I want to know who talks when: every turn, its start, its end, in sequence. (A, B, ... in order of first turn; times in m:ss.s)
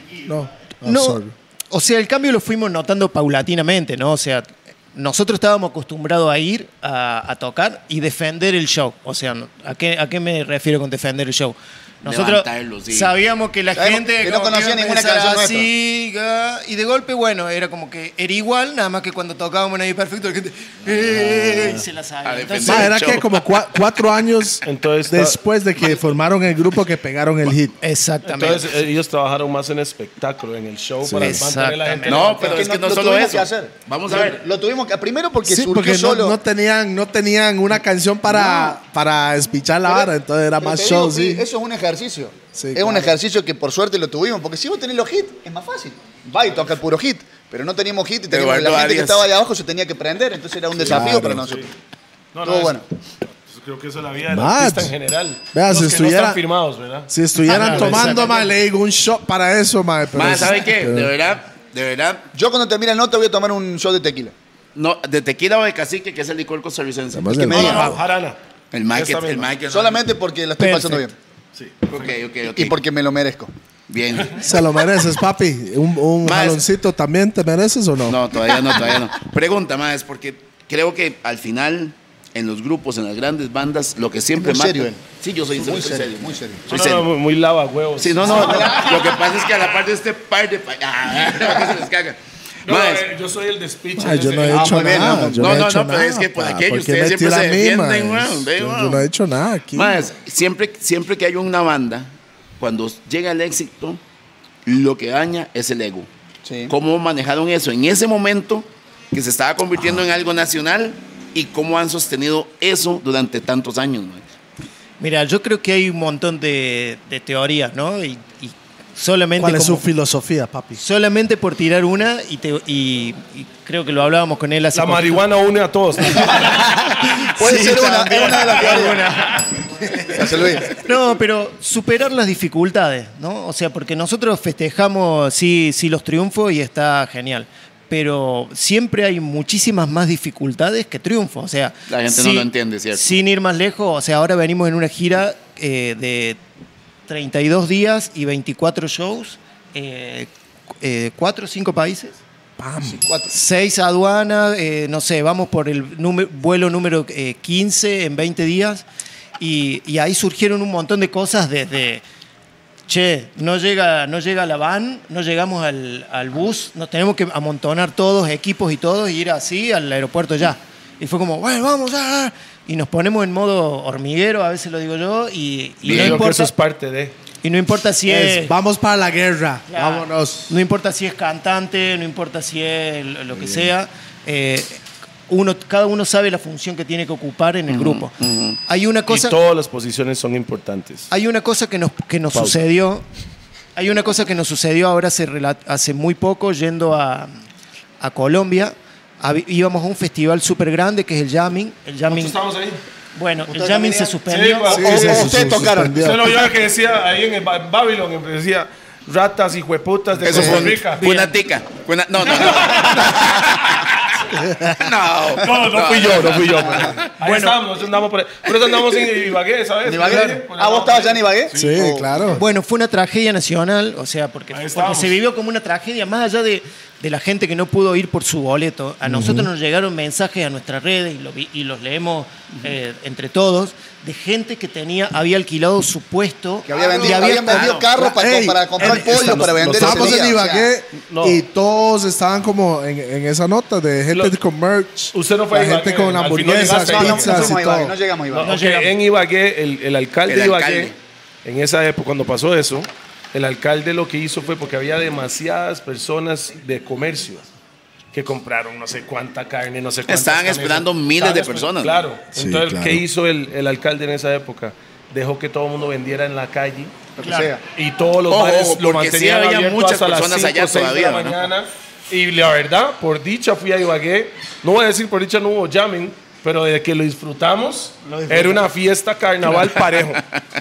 0:00.2-0:01.3 A
0:00.8-0:23.1 B
0:12.0-0:13.1 C
0:13.8-0:15.7 D
0:21.1-0:21.8 A
0:22.2-0:23.3 C
0:22.7-0:27.7 A
0:24.6-0:25.4 E
0:27.8-0:28.8 B
0:28.3-0:32.5 E
0:31.0-0:31.4 A
0:31.2-0:32.6 B
0:32.0-0:34.4 C
0:32.4-0:36.4 D
0:35.4-0:41.4 A
0:38.3-0:38.8 D
0:39.9-0:51.7 D
0:42.5-0:43.1 A
0:48.3-0:49.3 C
0:50.9-0:51.5 A
0:51.0-0:51.7 E
0:52.3-0:52.8 E
0:52.4-0:52.8 D
0:53.5-0:57.1 E
0:54.3-0:54.9 A
0:55.5-0:56.4 A
0:57.1-1:01.1 A
0:57.4-0:58.4 B
0:57.6-0:58.2 E
1:00.2-1:02.2 C
1:02.3-1:04.3 D
1:04.8-1:08.0 C
1:07.1-1:08.0 A
1:07.4-1:08.0 D
1:07.5-1:08.4 E
1:08.7-1:10.1 C
1:08.9-1:09.5 E
1:09.6-1:11.2 D
1:10.6-1:11.1 B
1:11.6-1:12.1 E
1:11.9-1:12.8 C
1:12.4-1:13.5 D
1:13.9-1:14.5 C
1:14.4-1:18.2 A
1:16.2-1:16.6 C
1:18.1-1:27.1 C
1:18.6-1:18.9 D
1:24.4-1:26.6 D
1:26.7-1:28.8 E
1:28.0-1:33.0 C
1:28.2-1:29.2 D
1:32.6-1:35.2 E
1:34.0-1:40.1 A
1:34.5-1:35.7 D
1:35.3-1:39.0 C
1:39.7-1:44.0 C
1:44.6-1:46.1 C
1:46.4-1:46.7 D
1:46.7-1:54.2 C
1:55.0-1:59.8 B
1:59.4-2:00.8 A
2:00.8-2:05.2 B
2:04.8-2:06.7 E
2:06.2-2:09.5 B
2:06.2-2:09.1 D
2:10.0-2:26.4 B
2:10.1-2:10.8 D
2:21.9-2:23.2 C
2:27.1-2:30.3 B
2:30.8-2:32.2 B
2:32.6-2:33.0 A
2:32.8-2:33.3 D
2:33.3-2:38.8 B
2:39.4-2:42.0 B
2:42.9-2:56.5 B
2:55.8-2:56.2 C
2:55.8-2:57.2 E
2:57.4-2:58.6 B
2:58.1-3:00.6 A
2:59.7-3:09.4 B
3:03.3-3:03.7 A
3:07.7-3:08.6 C
3:09.1-3:11.1 E
3:11.1-3:13.0 B
3:12.3-3:12.6 E
3:13.8-3:17.4 B
3:18.0-3:22.4 B
3:22.1-3:22.8 E
3:23.2-3:25.6 B
3:23.5-3:24.2 D
3:24.3-3:31.0 E
3:24.7-3:26.4 A
3:24.8-3:26.1 D
3:30.2-3:34.0 C
3:30.3-3:30.7 D
3:31.0-3:31.3 B
3:32.3-3:33.7 E
3:34.4-3:34.9 A
3:34.7-3:37.0 C
3:35.4-3:41.8 E
3:36.6-3:37.0 D
3:37.2-3:37.6 B
3:39.8-3:42.4 D
3:41.5-3:42.4 A
3:42.3-3:57.9 B
3:44.5-3:45.2 E
3:49.0-3:49.5 A
3:56.7-4:00.7 D
3:57.4-3:57.9 C
3:58.0-4:08.0 A
3:59.6-4:00.3 E
4:01.1-4:01.4 E
4:04.1-4:04.4 E
4:05.1-4:07.6 E
4:06.8-4:08.6 D
4:08.3-4:10.9 E
4:08.4-4:09.0 B
4:10.3-4:11.0 C
4:11.4-4:17.5 E
4:18.1-4:27.0 E
4:20.1-4:22.0 C
4:22.3-4:23.0 A
4:27.2-4:27.6 D
4:27.2-4:27.5 B
4:27.7-4:40.2 E
4:28.3-4:31.4 C
4:38.0-4:38.6 B